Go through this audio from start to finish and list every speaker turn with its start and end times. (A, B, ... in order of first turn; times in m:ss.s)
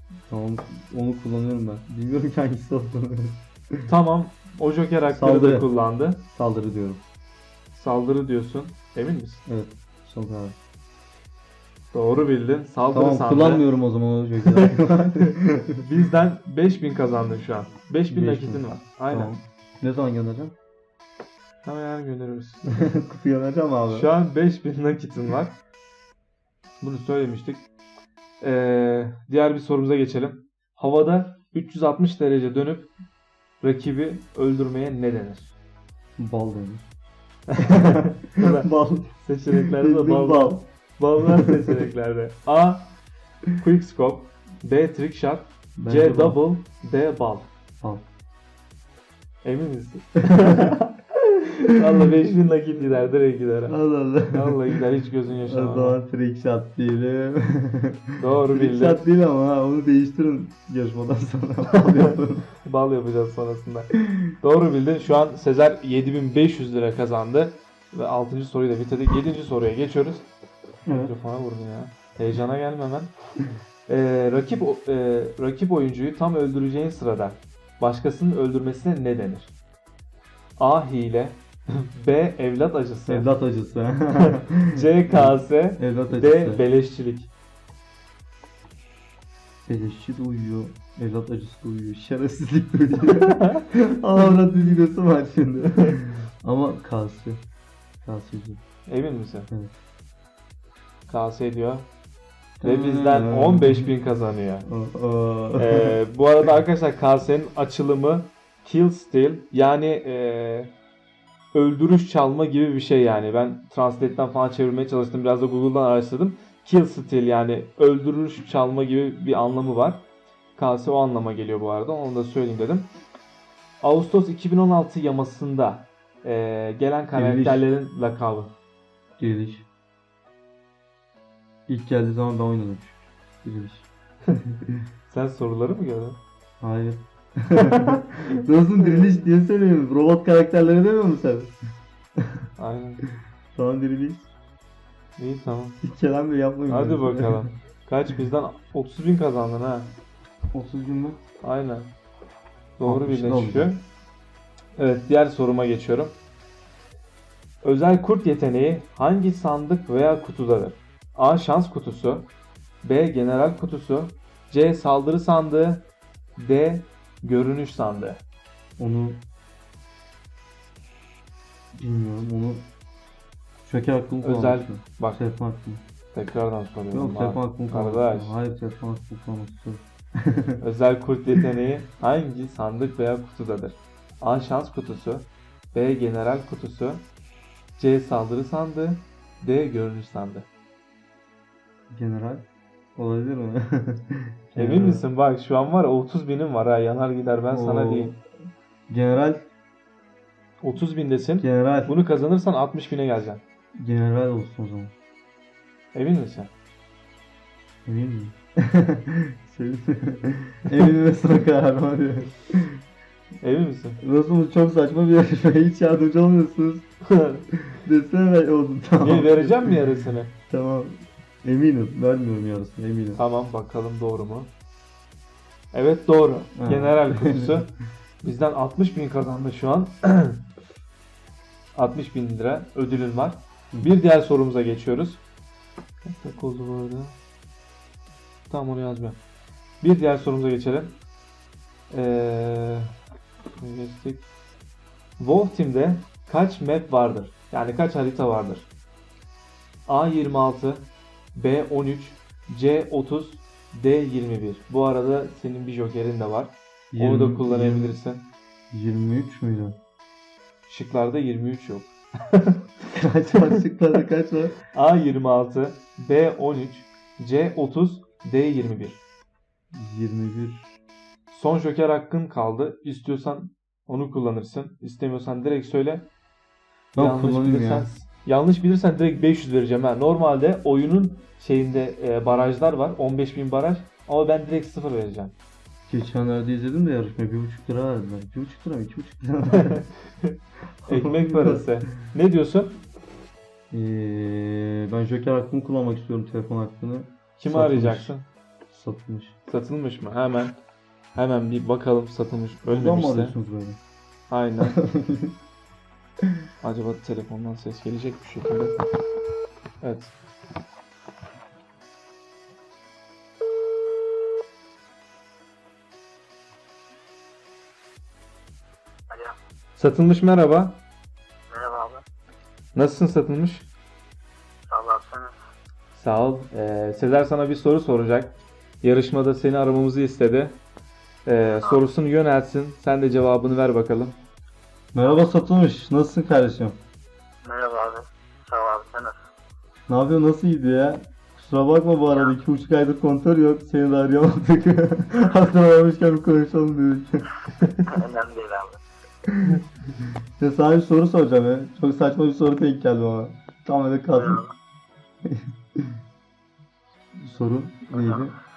0:00.3-0:03.9 A
0:03.9-0:06.2 B
0:05.1-0:05.7 A
0:06.3-0:07.0 A
0:07.7-0:09.4 B
0:09.5-0:10.6 A
0:11.9-0:13.7 B
0:12.9-0:15.8 A
0:14.4-0:19.3 B
0:18.1-0:20.5 A
0:21.6-0:22.8 B
0:22.7-0:24.1 A
0:23.9-0:25.6 B
0:26.8-0:27.6 B
0:28.4-0:32.9 B
0:33.6-0:35.5 B
0:36.2-0:36.8 A
0:37.5-0:43.0 B
0:37.6-0:40.7 A
0:43.6-0:47.5 B
0:45.8-0:46.4 A
0:47.8-0:48.0 A
0:49.4-0:53.8 B
0:50.3-0:50.6 A
0:53.7-0:54.8 A
0:54.3-0:56.0 B
0:55.4-1:02.4 A
0:58.2-0:59.0 B
1:02.6-1:10.2 B
1:04.0-1:04.3 A
1:10.8-1:11.1 A
1:10.9-1:13.1 B
1:13.9-1:19.5 B
1:20.6-1:23.3 B
1:23.1-1:26.6 A
1:24.2-1:27.3 B
1:29.7-1:37.4 A
1:33.0-1:33.6 B
1:38.0-1:38.6 A
1:38.9-1:39.5 B
1:41.1-1:41.9 B
1:42.6-1:43.9 A
1:42.6-1:44.7 B
1:44.6-1:46.0 A
1:45.6-1:50.7 B
1:51.5-2:00.0 B
2:00.6-2:02.9 B
2:03.8-2:08.5 B
2:07.1-2:07.6 A
2:09.2-2:09.7 A
2:11.7-2:14.8 A
2:15.1-2:16.2 B
2:16.6-2:21.5 A
2:17.6-2:19.1 B
2:22.6-2:23.0 B
2:23.6-2:24.3 A
2:25.2-2:25.8 B
2:25.8-2:27.5 A
2:26.7-2:29.9 B
2:30.5-2:31.2 A
2:31.4-2:31.9 B
2:32.8-2:33.8 B
2:32.8-2:33.8 A
2:34.8-2:36.2 B
2:37.6-2:42.3 B
2:42.8-2:48.2 B
2:48.8-2:49.2 A
2:51.8-2:52.7 A
2:53.6-2:55.8 A
2:54.2-2:55.2 B
2:56.1-2:58.3 B
2:56.9-3:00.6 A
3:00.6-3:07.0 B
3:07.8-3:10.5 B
3:11.9-3:12.4 A
3:13.0-3:15.0 A
3:14.6-3:18.1 B
3:17.5-3:18.2 A
3:18.9-3:19.4 A
3:20.6-3:23.4 B
3:21.4-3:21.9 A
3:23.8-3:24.9 A
3:25.9-3:26.5 B
3:27.8-3:32.8 A
3:33.4-3:34.0 B
3:34.0-3:36.8 A
3:37.0-3:37.4 B
3:37.7-3:39.8 A
3:39.0-3:40.3 B
3:40.5-3:43.2 A
3:43.2-3:44.5 B
3:45.7-3:47.7 B
3:46.6-3:47.6 A
3:48.2-3:50.4 B
3:51.8-3:55.2 B
3:56.0-3:57.2 B
3:58.5-3:59.2 B
3:59.8-4:01.0 B
4:01.9-4:02.9 B
4:03.6-4:04.3 B
4:05.2-4:08.7 B
4:09.9-4:18.3 B
4:16.9-4:18.0 A
4:18.7-4:19.8 A
4:20.7-4:22.6 B
4:22.9-4:24.5 A
4:24.7-4:29.0 B
4:29.7-4:30.7 A
4:31.3-4:36.1 B
4:36.9-4:37.9 A
4:36.9-4:45.3 B
4:45.9-4:49.8 A
4:49.5-4:50.4 B
4:50.8-4:51.8 A
4:50.9-4:52.7 B
4:53.7-4:58.1 A
4:57.4-4:58.2 B
4:58.7-4:59.3 A
4:59.5-5:00.6 B
5:01.1-5:03.3 B
5:02.7-5:03.8 A
5:04.3-5:04.8 B
5:04.6-5:05.3 A
5:06.6-5:08.8 B
5:09.8-5:10.1 B
5:19.1-5:19.3 C
5:19.8-5:20.8 B
5:21.5-5:22.0 C
5:22.7-5:23.7 B
5:24.7-5:25.3 C
5:25.9-5:30.6 B
5:31.2-5:34.2 B
5:34.9-5:36.8 A
5:37.4-5:39.2 C
5:39.9-5:47.2 A
5:47.9-5:48.8 C
5:49.3-5:49.6 A
5:50.4-5:54.4 A
5:55.3-5:55.8 A
5:57.2-5:58.3 A